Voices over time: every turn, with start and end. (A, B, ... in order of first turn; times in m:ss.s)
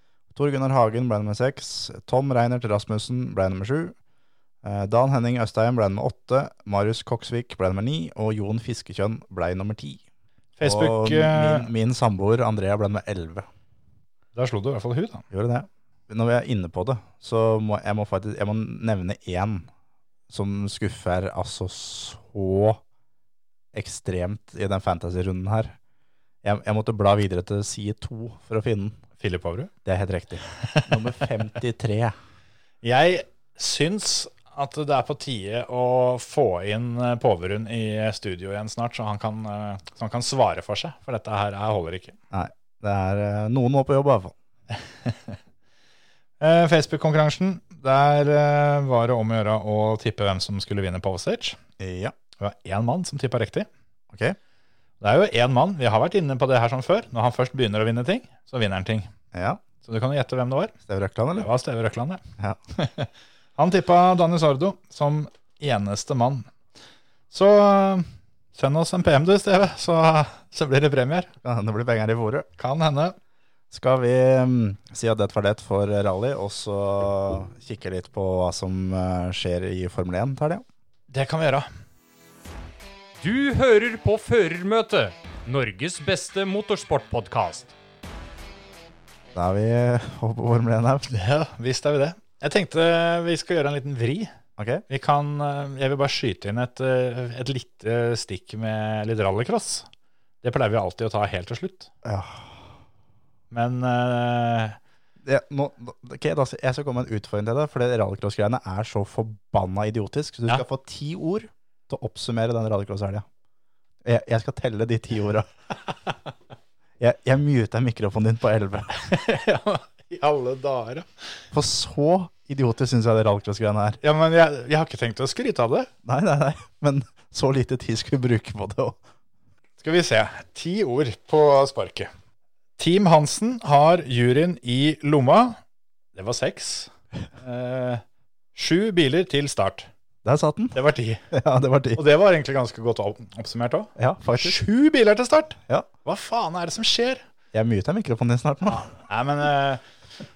0:00.3-0:04.0 A
0:04.6-0:10.0 A
0:10.6-0:11.7 B
0:10.6-0:13.5 A
0:14.3-0:15.2 B
0:15.3-0:19.7 A
0:20.3-0:22.8 A
0:23.7-0:25.7 A
0:26.4-0:29.0 A
0:29.2-0:29.7 B
0:29.8-0:32.1 A
0:30.5-0:31.0 B
0:32.8-0:42.2 B
0:42.3-0:44.3 A
0:45.0-0:45.4 B
0:46.4-0:51.6 B
0:51.8-0:52.1 A
0:52.4-0:53.7 B
0:54.1-0:54.4 A
0:55.0-0:59.1 B
0:59.3-0:59.6 A
0:59.8-1:00.7 B
1:00.9-1:01.5 A
1:01.4-1:02.2 B
1:02.7-1:06.5 B
1:07.3-1:11.3 B
1:11.4-1:12.5 A
1:12.6-1:13.2 B
1:13.7-1:20.6 A
1:21.1-1:21.7 B
1:23.2-1:27.7 C
1:29.3-1:31.1 A
1:31.1-1:34.3 B
1:34.6-1:34.8 A
1:34.9-1:39.9 B
1:40.4-1:41.9 B
1:42.0-1:42.6 A
1:43.5-1:44.8 B
1:45.2-1:53.2 A
1:54.0-1:55.5 A
1:57.0-1:58.9 A
1:58.9-2:01.2 B
2:01.5-2:04.0 A
2:04.0-2:05.9 B
2:06.0-2:09.0 A
2:09.8-2:12.1 B
2:12.8-2:15.6 B
2:16.1-2:18.0 B
2:18.5-2:19.9 B
2:20.2-2:20.8 A
2:20.7-2:21.3 B
2:21.3-2:22.0 A
2:21.9-2:27.2 B
2:24.0-2:24.6 A
2:27.5-2:28.9 A
2:28.7-2:29.8 B